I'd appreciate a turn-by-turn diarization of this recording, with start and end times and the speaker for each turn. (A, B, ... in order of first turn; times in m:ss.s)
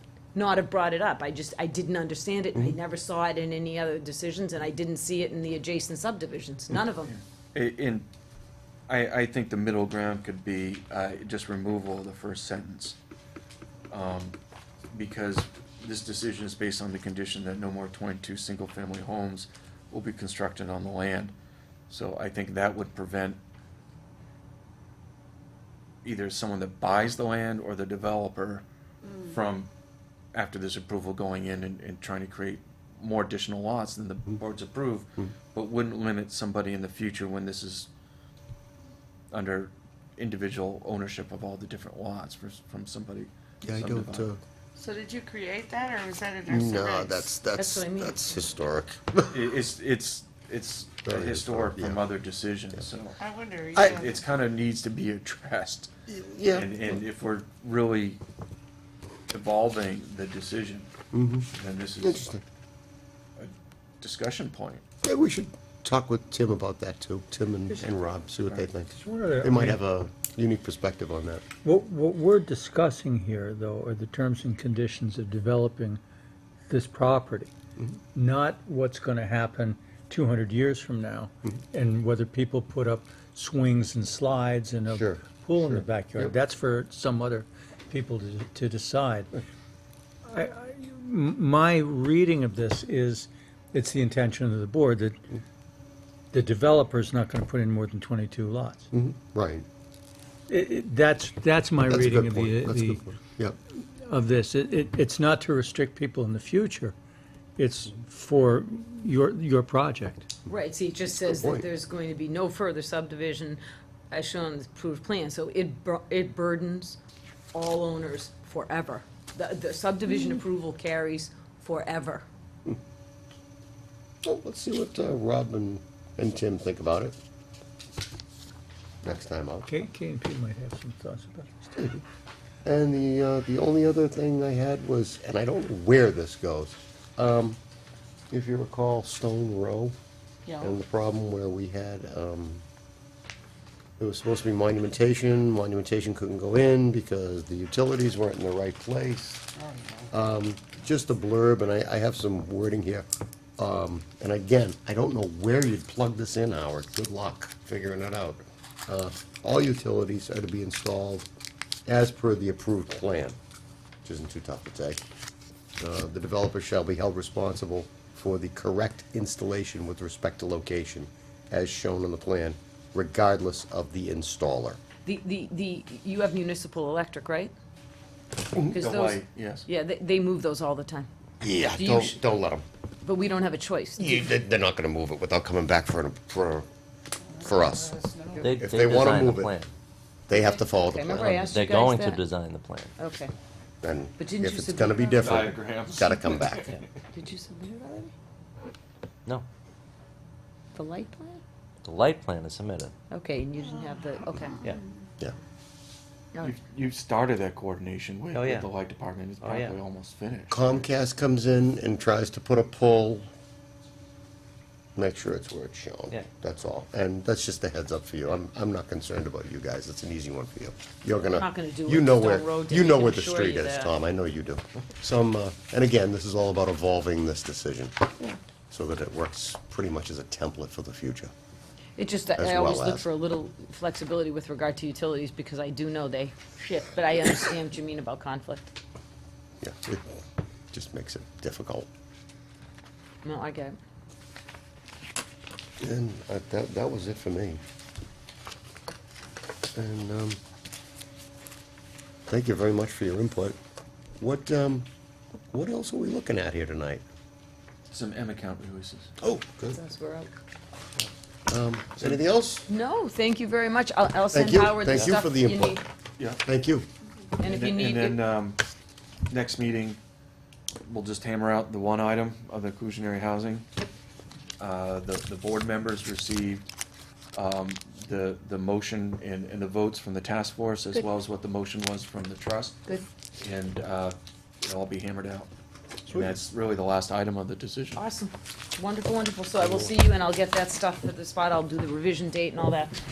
0:00.4-0:07.1 A
0:07.1-0:08.1 B
0:08.9-0:13.0 B
0:13.9-0:14.4 B
0:14.9-0:21.3 B
0:21.9-0:23.4 B
0:26.0-0:28.6 B
0:29.2-0:29.7 B
0:30.3-0:37.9 B
0:39.3-0:44.3 B
0:43.6-0:44.4 C
0:44.8-0:47.3 D
0:46.5-0:49.4 C
0:47.6-0:48.2 A
0:49.3-0:53.2 B
0:51.1-0:52.0 C
0:53.2-0:54.2 D
0:53.8-0:54.0 C
0:53.8-0:55.9 B
0:56.1-0:57.0 C
0:56.5-0:58.2 B
0:59.3-1:00.9 B
1:01.1-1:01.5 C
1:01.5-1:02.4 B
1:02.0-1:02.4 C
1:03.4-1:04.8 B
1:05.0-1:11.4 C
1:08.9-1:09.8 E
1:11.6-1:16.0 E
1:16.7-1:17.5 E
1:18.1-1:29.4 E
1:24.9-1:26.4 C
1:30.3-1:35.2 E
1:36.3-1:38.9 E
1:38.9-1:39.6 C
1:40.5-1:43.0 E
1:41.9-1:43.6 C
1:43.9-1:47.0 E
1:47.6-1:50.3 E
1:50.5-1:53.6 A
1:51.1-1:51.7 C
1:54.1-1:57.0 A
1:57.5-2:02.3 A
2:04.2-2:07.2 C
2:09.0-2:09.7 C
2:09.7-2:11.6 E
2:11.7-2:12.0 C
2:12.6-2:17.6 C
2:18.3-2:20.0 C
2:20.5-2:20.8 D
2:20.6-2:22.6 C
2:24.0-2:29.4 C
2:29.7-2:30.1 D
2:30.1-2:33.1 C
2:33.6-2:41.3 C
2:41.9-2:43.4 C
2:44.0-2:45.0 C
2:45.8-2:54.8 C
2:55.0-2:57.5 A
2:58.5-2:58.8 C
2:58.7-3:01.1 A
2:58.7-2:59.7 B
3:01.4-3:02.6 C
3:01.8-3:02.2 A
3:03.0-3:04.3 A
3:04.0-3:06.7 C
3:07.4-3:09.5 C
3:08.0-3:08.4 D
3:08.4-3:09.7 F
3:10.3-3:11.5 C
3:10.3-3:12.2 A
3:11.5-3:12.9 F
3:13.0-3:13.3 A
3:13.8-3:16.8 C
3:14.2-3:15.5 A
3:15.2-3:16.8 B
3:17.1-3:18.1 A
3:20.7-3:21.4 A
3:21.8-3:22.9 F
3:23.1-3:24.7 A
3:26.4-3:30.9 B
3:28.3-3:28.7 F
3:29.4-3:29.8 F
3:30.5-3:33.3 C
3:35.0-3:48.0 C
3:41.3-3:43.9 A
3:48.7-3:51.3 C
3:52.0-3:58.7 A
3:52.4-3:53.1 C
3:59.6-4:01.9 C
4:03.2-4:03.8 A
4:05.8-4:07.6 C
4:09.7-4:10.4 C
4:12.3-4:13.6 C
4:14.2-4:14.9 C
4:15.5-4:17.0 C
4:17.9-4:19.1 B
4:19.2-4:19.8 C
4:19.8-4:20.3 A
4:21.5-4:22.7 C
4:22.7-4:25.8 A
4:24.3-4:25.8 C
4:26.4-4:26.9 C
4:27.4-4:28.2 A
4:27.4-4:28.6 B
4:29.3-4:30.0 B
4:30.8-4:33.7 B
4:34.6-4:36.6 B
4:37.3-4:42.8 B
4:43.4-4:45.5 B
4:46.1-4:46.4 C
4:46.1-4:48.0 B
4:48.0-4:53.0 A
4:49.6-4:49.9 C